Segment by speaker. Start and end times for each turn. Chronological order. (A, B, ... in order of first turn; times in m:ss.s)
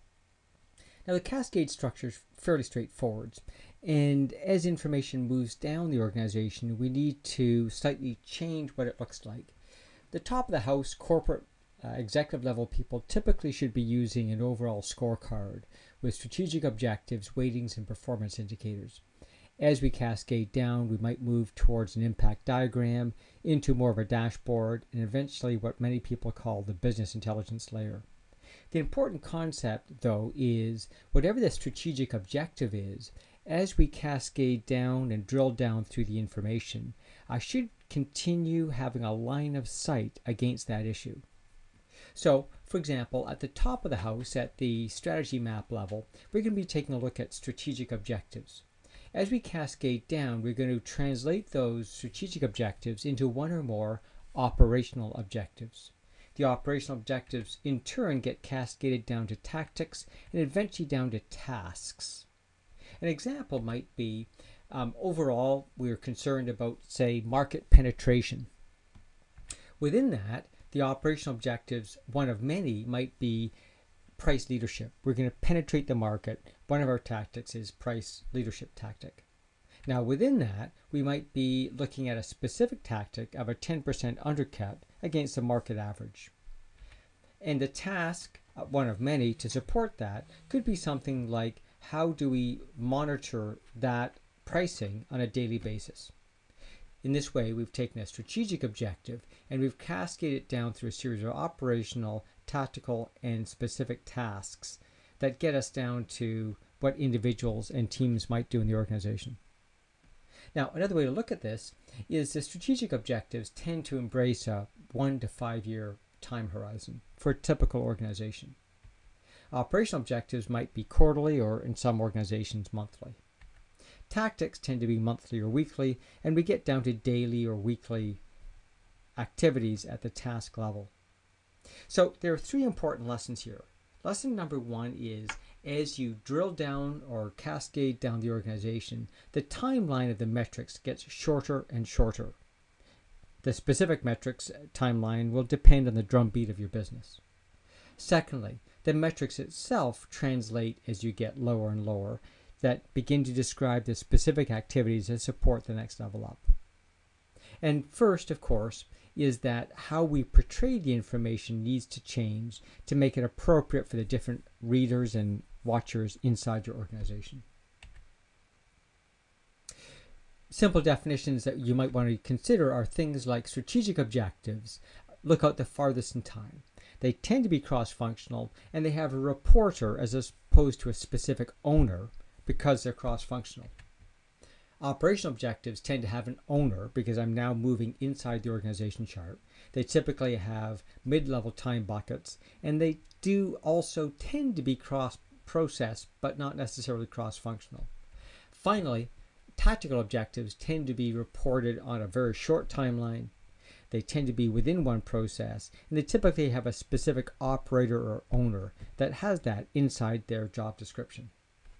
0:01.0-0:09.5 A
0:10.1-0:19.0 A
0:19.6-0:28.0 A
0:28.7-0:41.2 A
0:42.1-1:02.3 A
1:03.0-1:08.5 A
1:09.8-1:13.5 A
1:14.2-1:19.2 A
1:19.8-1:26.3 A
1:27.4-1:36.1 A
1:37.0-1:49.4 A
1:50.5-1:58.6 A
1:59.5-2:03.2 A
2:04.1-2:08.2 A
2:09.2-2:10.9 A
2:11.9-2:22.4 A
2:23.4-2:27.2 A
2:28.0-2:36.5 A
2:37.6-2:47.4 A
2:50.5-3:03.7 A
3:04.8-3:17.9 A
3:18.5-3:23.3 A
3:23.9-3:31.3 A